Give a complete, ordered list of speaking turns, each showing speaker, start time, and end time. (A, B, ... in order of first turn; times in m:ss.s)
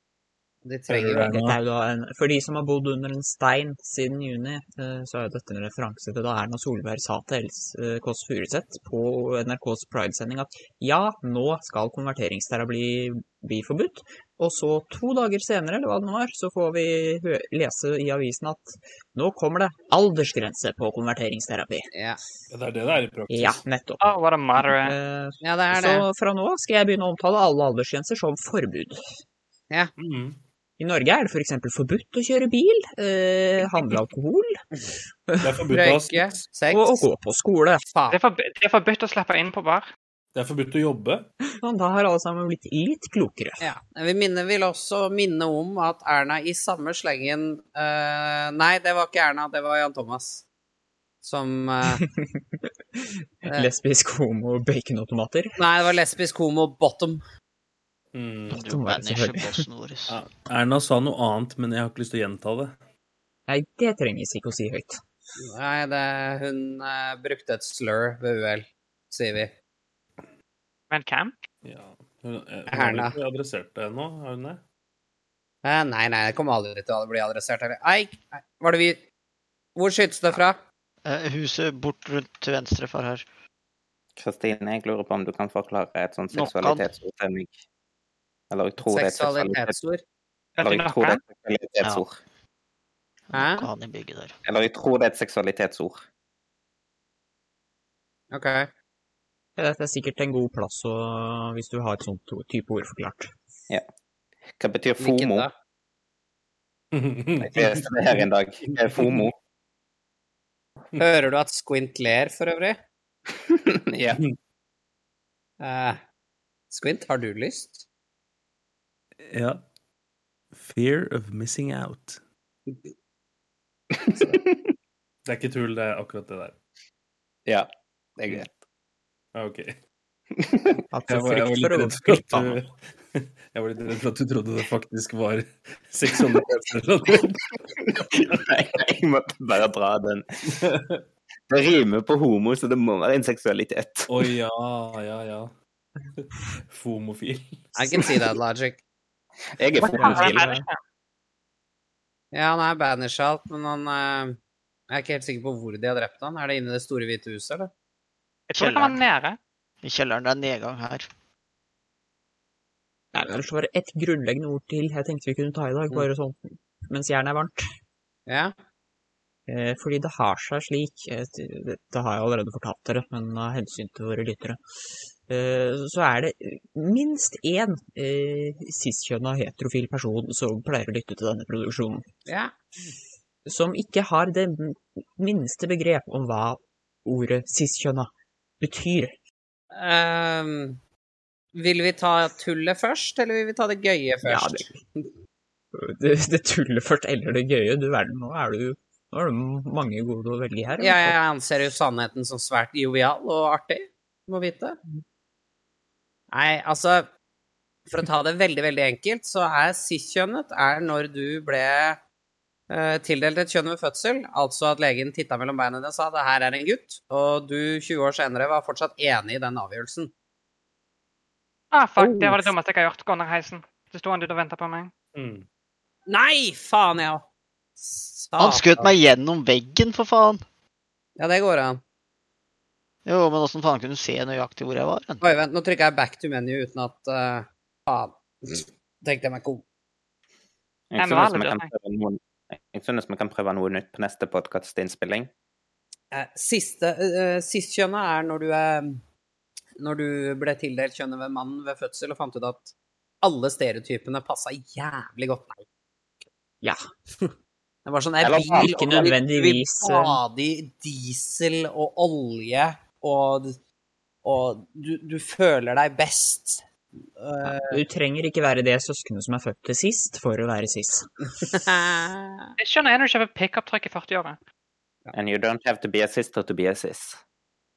0:00.6-0:01.3 A
0:01.2-0:21.9 B
0:21.9-0:22.2 A
0:22.5-0:23.6 C
0:23.3-0:24.0 B
0:24.0-0:25.0 D
0:24.6-0:29.0 B
0:25.4-0:26.1 A
0:30.0-0:30.4 C
0:30.8-0:34.6 B
0:35.3-0:35.6 B
0:35.4-0:36.4 C
0:35.7-0:37.1 A
0:36.7-0:37.8 B
0:38.1-0:39.9 D
0:40.4-0:41.3 C
0:41.6-0:43.7 B
0:43.6-0:50.4 A
0:51.2-0:52.0 A
0:51.9-0:55.6 B
0:55.6-0:57.2 A
0:58.1-0:58.6 C
0:58.5-1:00.2 E
0:58.6-0:59.7 B
1:00.1-1:02.8 C
1:03.5-1:05.0 B
1:05.4-1:09.5 A
1:10.9-1:11.3 D
1:11.6-1:14.6 C
1:12.7-1:13.2 A
1:15.6-1:19.0 A
1:19.8-1:20.6 A
1:21.0-1:23.2 E
1:24.2-1:27.6 F
1:26.3-1:26.9 E
1:28.5-1:29.7 F
1:28.8-1:30.0 A
1:30.6-1:31.2 D
1:30.6-1:32.2 F
1:33.3-1:34.4 E
1:33.3-1:33.7 A
1:34.5-1:36.0 F
1:38.3-1:38.7 A
1:39.6-1:43.3 B
1:44.6-1:45.5 F
1:45.0-1:45.5 A
1:46.9-1:48.2 C
1:47.4-1:49.3 F
1:48.9-1:49.3 C
1:51.0-1:52.8 A
1:53.3-1:54.2 F
1:55.6-1:56.0 A
1:56.7-1:57.8 A
1:59.2-1:59.6 C
2:00.5-2:02.2 C
2:04.0-2:04.7 F
2:05.2-2:06.6 C
2:08.2-2:08.5 F
2:09.4-2:09.8 C
2:10.4-2:10.8 F
2:10.9-2:12.6 B
2:11.1-2:17.6 C
2:17.8-2:20.4 F
2:20.5-2:21.0 C
2:21.5-2:24.3 F
2:24.1-2:25.5 C
2:26.2-2:27.7 C
2:27.8-2:28.8 A
2:29.5-2:30.5 F
2:29.8-2:30.8 D
2:29.9-2:30.6 B
2:32.3-2:34.4 A
2:34.9-2:37.7 A
2:38.5-2:39.4 D
2:38.6-2:39.0 E
2:39.8-2:41.1 E
2:43.1-2:47.6 B
2:48.3-2:48.5 A
2:49.5-2:54.6 B
2:55.3-3:02.1 B
3:02.3-3:02.5 A
3:03.5-3:09.2 B
3:09.7-3:10.8 A
3:11.5-3:15.1 A
3:14.2-3:14.7 B
3:15.7-3:21.2 B
3:20.8-3:24.8 A
3:26.3-3:27.1 A
3:27.9-3:32.0 A
3:32.7-3:40.1 A
3:41.7-3:44.9 D
3:45.2-3:45.5 C
3:46.1-3:47.2 A
3:47.8-3:48.9 A
3:48.4-3:50.4 E
3:51.2-3:51.8 A
3:53.1-3:55.3 E
3:55.2-3:59.6 A
4:00.9-4:05.3 F
4:01.0-4:01.7 D
4:06.1-4:09.0 A
4:09.8-4:15.6 A
4:17.9-4:23.6 A
4:18.2-4:18.7 F
4:18.5-4:20.2 B
4:24.2-4:26.6 A
4:27.2-4:27.8 A
4:27.4-4:31.1 B
4:31.5-4:32.5 A
4:32.6-4:34.4 D
4:35.1-4:37.2 F